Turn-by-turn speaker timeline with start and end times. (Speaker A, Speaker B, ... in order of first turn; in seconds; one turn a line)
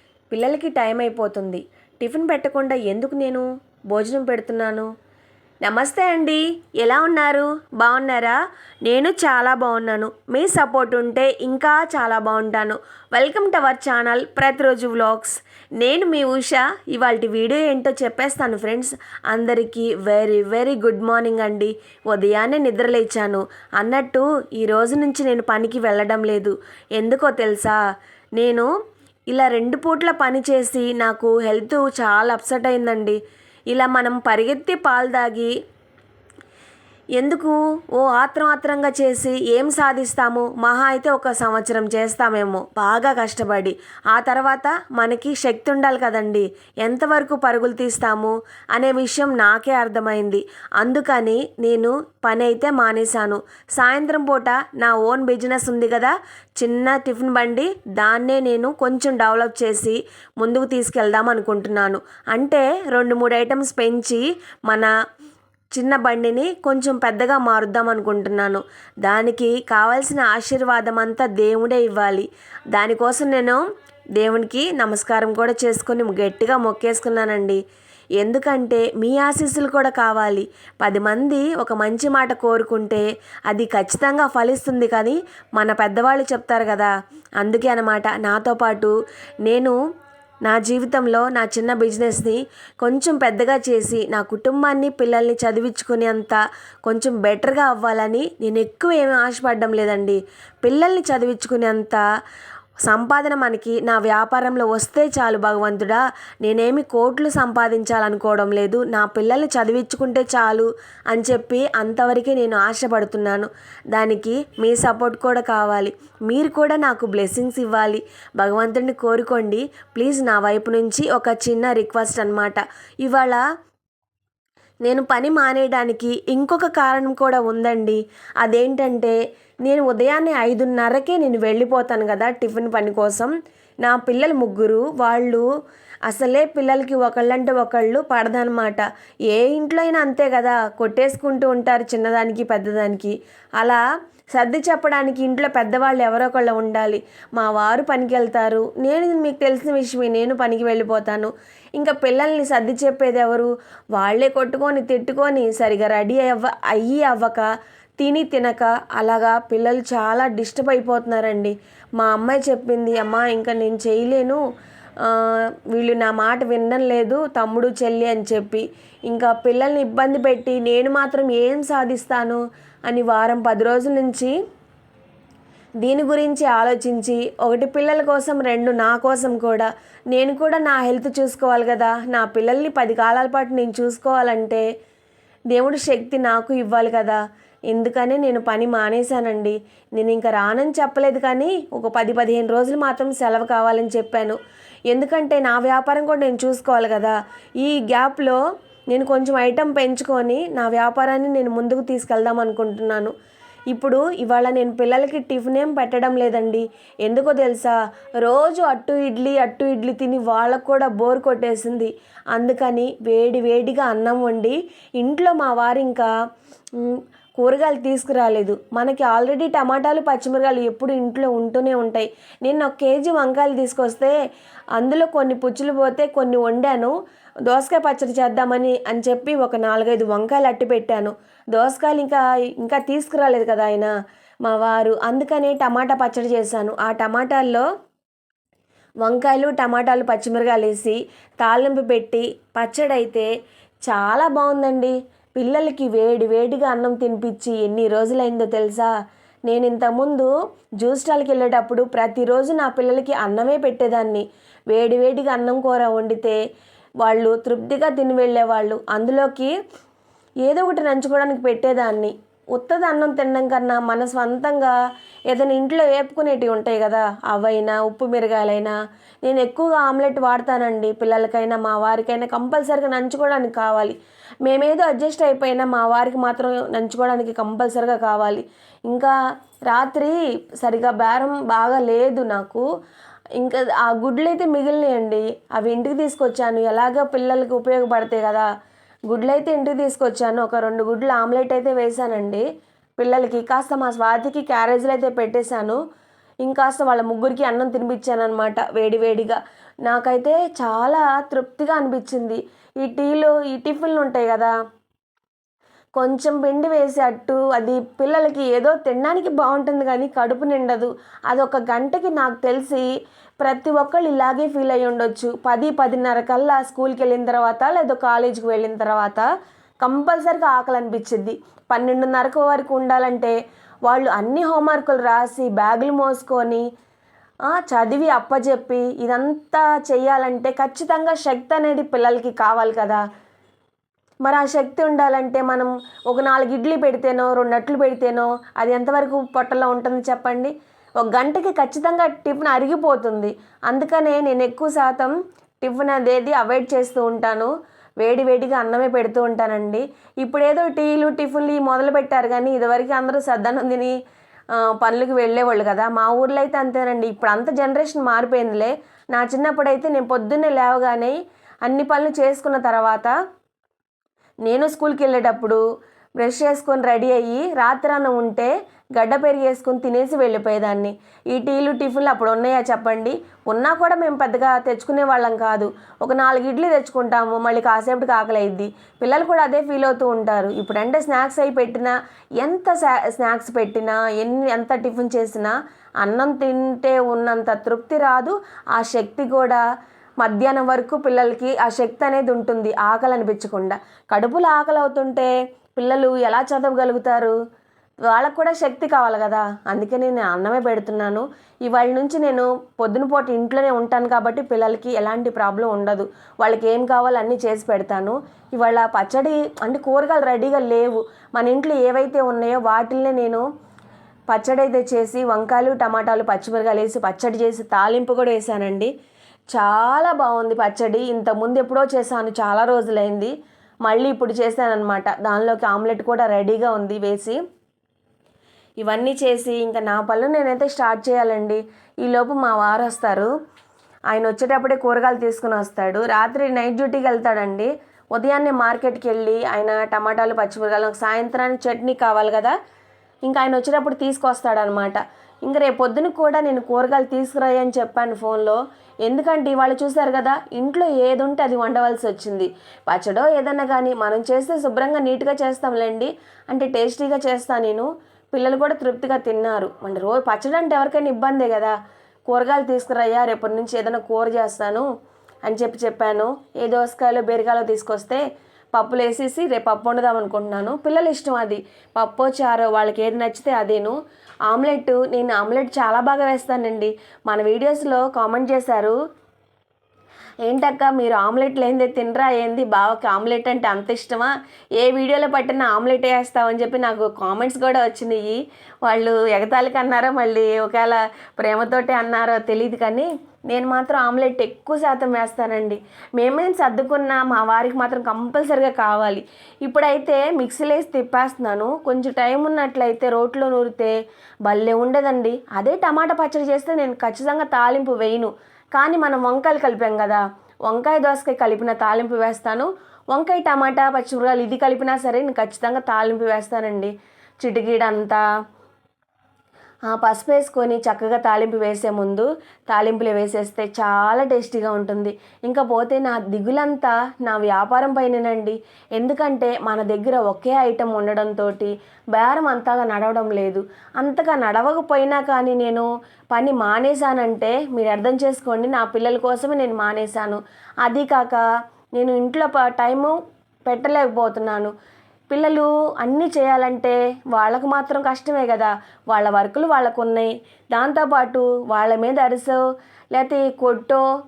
Speaker A: 0.3-4.9
Speaker A: 5.6-27.8
Speaker A: 28.4-28.7
Speaker A: 29.3-33.2
Speaker A: 33.7-35.5
Speaker A: 37.2-64.9
Speaker A: 65.7-73.6
Speaker A: 74.2-77.6
Speaker A: 78.2-89.8
Speaker A: 90.5-102.0
Speaker A: 102.8-123.4
Speaker A: 124.8-133.3
Speaker A: 133.8-135.4
Speaker A: 136.1-143.8
Speaker A: 144.3-157.5
Speaker A: 158.0-164.4
Speaker A: 165.0-174.3
Speaker A: 175.8-184.6
Speaker A: 185.5-187.2
Speaker A: 187.7-194.4
Speaker A: 194.9-198.4
Speaker A: 198.9-203.1
Speaker A: 203.7-216.1
Speaker A: 216.8-224.2
Speaker A: 224.8-226.9
Speaker A: 227.5-233.9
Speaker A: 234.4-237.7
Speaker A: 239.0-243.3
Speaker A: 243.8-248.9
Speaker A: 249.5-250.3
Speaker A: 250.8-256.4
Speaker A: 257.0-259.5
Speaker A: 260.4-264.8
Speaker A: 265.3-279.1
Speaker A: 279.7-282.6
Speaker A: 283.4-288.5
Speaker A: 289.1-292.4
Speaker A: 293.0-295.8
Speaker A: 296.4-304.5
Speaker A: 306.0-312.9
Speaker A: 313.4-319.3
Speaker A: 319.8-323.3
Speaker A: 323.9-326.6
Speaker A: 327.5-333.0
Speaker A: 334.2-353.9
Speaker A: 354.5-363.1
Speaker A: 364.4-365.6
Speaker A: 366.2-389.6
Speaker A: 390.2-397.3
Speaker A: 398.1-413.4
Speaker A: 414.3-418.9
Speaker A: 419.5-423.3
Speaker A: 423.9-427.4
Speaker A: 428.8-433.3
Speaker A: 434.1-442.6
Speaker A: 443.3-461.7
Speaker A: 462.3-464.9
Speaker A: 465.5-468.2
Speaker A: 468.8-474.0
Speaker A: 474.5-478.9
Speaker A: 480.5-518.2
Speaker A: 519.9-541.4
Speaker A: 542.0-544.7
Speaker A: 545.3-552.6
Speaker A: 553.1-554.0